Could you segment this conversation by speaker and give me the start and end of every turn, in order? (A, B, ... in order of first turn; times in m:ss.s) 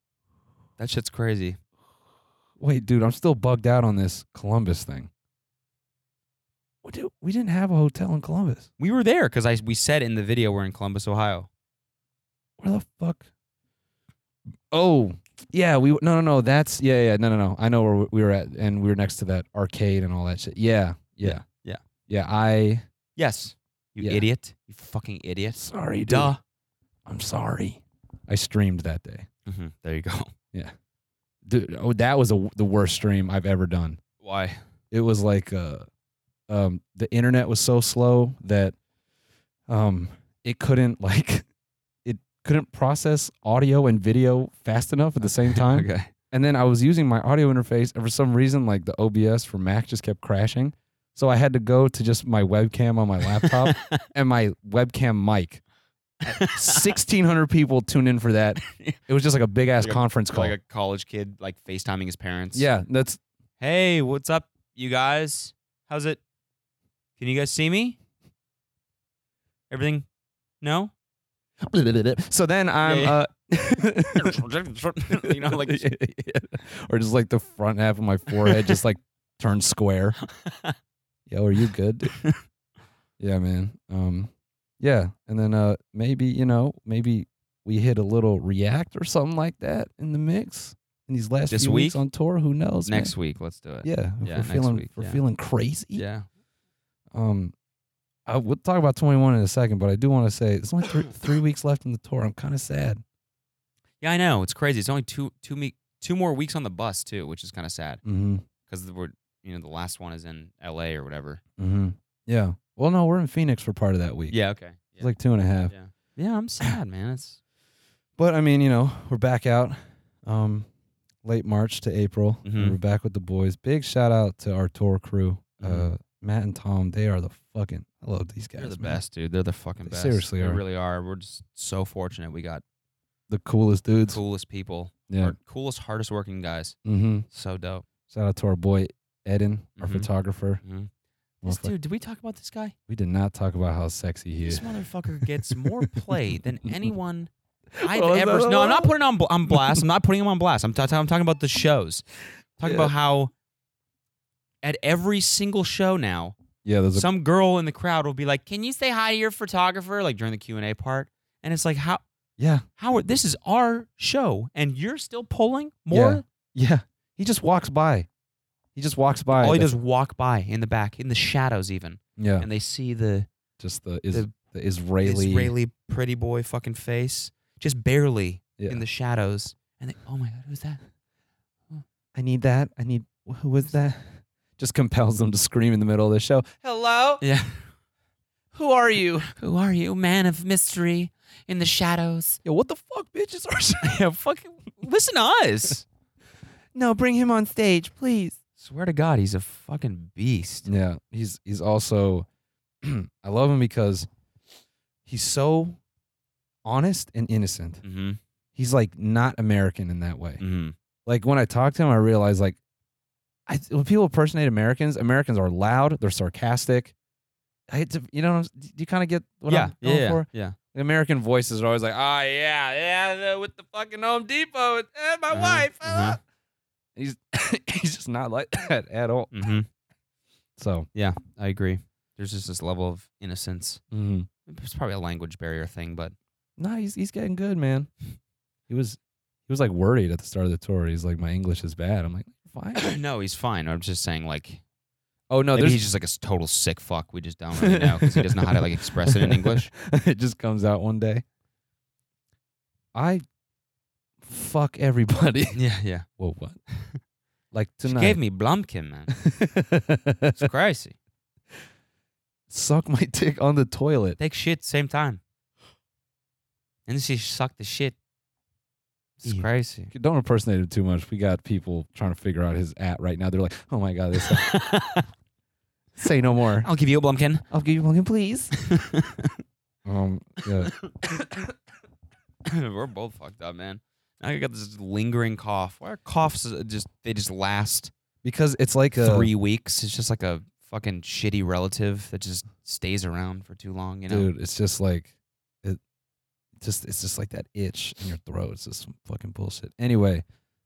0:00.8-0:01.6 A
0:02.6-0:05.1 B
0:06.8-0:08.7 B
0:08.8-0:11.5 A
0:12.6-0:13.3 B
0:14.7-0:21.4 B
0:21.2-0:21.8 A
0:22.1-0:22.8 B
0:23.2-0:26.4 A
0:25.6-0:26.4 B
0:27.0-0:29.3 B
0:29.4-0:30.3 A
0:31.4-0:34.0 B
0:34.2-0:34.6 A
0:34.9-0:35.9 B
0:36.5-0:38.8 B
0:39.7-0:41.5 B
0:42.0-0:55.6 B
0:45.2-0:46.1 A
0:53.2-0:54.0 A
0:56.2-0:56.9 A
0:56.3-1:00.5 B
0:58.6-0:59.0 A
0:59.8-1:02.7 A
1:02.5-1:03.2 B
1:03.6-1:06.2 A
1:07.2-1:08.0 A
1:09.7-1:10.0 A
1:10.6-1:10.9 A
1:11.6-1:14.4 B
1:12.8-1:13.2 A
1:14.1-1:15.9 A
1:15.1-1:20.2 B
1:18.4-1:18.8 A
1:20.2-1:20.7 A
1:21.3-1:22.2 B
1:22.1-1:22.4 A
1:23.2-1:33.1 B
1:31.5-1:32.0 A
1:32.8-1:35.2 A
1:33.8-1:36.0 B
1:35.9-1:36.2 A
1:37.1-1:37.5 B
1:38.2-1:43.0 B
1:44.0-1:48.0 A
1:48.0-1:48.4 B
1:48.7-1:51.4 A
1:51.6-1:54.4 B
1:54.3-1:55.1 A
1:54.9-1:55.7 B
1:55.7-1:57.4 A
1:58.2-2:00.7 B
2:01.2-2:09.0 B
2:02.4-2:02.8 A
2:05.6-2:05.9 A
2:08.6-2:12.6 A
2:09.8-2:10.6 B
2:13.3-2:14.2 B
2:14.1-2:16.8 A
2:15.1-2:15.3 B
2:16.8-2:17.2 B
2:17.3-2:17.8 A
2:18.1-2:20.6 B
2:19.8-2:20.1 A
2:20.6-2:20.9 A
2:21.4-2:21.7 B
2:21.4-2:22.7 A
2:22.9-2:24.7 B
2:24.4-2:27.3 A
2:25.4-2:26.9 B
2:27.8-2:28.9 B
2:27.8-2:32.0 A
2:29.5-2:29.8 B
2:32.6-2:33.3 A
2:32.6-2:32.9 B
2:34.6-2:36.4 A
2:36.6-2:37.1 B
2:36.9-2:42.0 A
2:42.4-2:42.6 B
2:42.8-2:46.2 A
2:45.9-2:48.1 B
2:48.7-2:49.7 B
2:49.3-2:53.3 A
2:52.2-2:52.5 B
2:53.6-2:55.5 B
2:55.0-3:00.8 A
2:58.6-2:58.8 B
3:02.1-3:07.2 B
3:07.2-3:07.6 A
3:08.5-3:09.3 B
3:09.3-3:12.4 A
3:12.4-3:14.0 B
3:13.8-3:15.8 A
3:16.7-3:18.4 B
3:18.6-3:20.7 A
3:20.6-3:22.2 B
3:22.8-3:24.1 B
3:25.0-3:25.8 B
3:26.6-3:27.8 B
3:27.8-3:28.2 A
3:28.6-3:30.4 B
3:30.4-3:30.7 A
3:31.0-3:32.6 B
3:33.5-3:36.9 B
3:37.7-3:46.2 B
3:39.5-3:40.5 A
3:45.3-3:46.2 A
3:47.0-3:49.5 B
3:49.3-3:49.7 A
3:50.6-3:50.9 B
3:50.9-3:53.8 A
3:53.9-3:54.3 B
3:54.5-3:56.1 A
3:56.6-3:57.9 B
3:58.7-4:02.8 B
4:02.7-4:04.6 A
4:05.3-4:05.8 B
4:05.5-4:09.7 A
4:07.6-4:11.2 B
4:12.9-4:13.2 B
4:14.2-4:15.6 B
4:15.5-4:16.0 A
4:16.2-4:16.6 B
4:17.5-4:18.2 B
4:17.9-4:19.1 A
4:19.1-4:20.4 B
4:20.4-4:21.0 A
4:22.5-4:24.2 B
4:24.2-4:25.2 A
4:26.9-4:28.0 A
4:29.2-4:29.9 A
4:29.2-4:34.5 B
4:34.2-4:35.1 A
4:36.0-4:36.7 B
4:36.6-4:37.4 A
4:37.5-4:38.5 B
4:38.5-4:39.4 A
4:39.8-4:40.7 B
4:40.6-4:40.9 A
4:42.4-4:47.9 A
4:48.2-4:49.3 B
4:49.0-4:54.3 A
4:54.1-4:55.8 B
4:56.6-5:00.2 B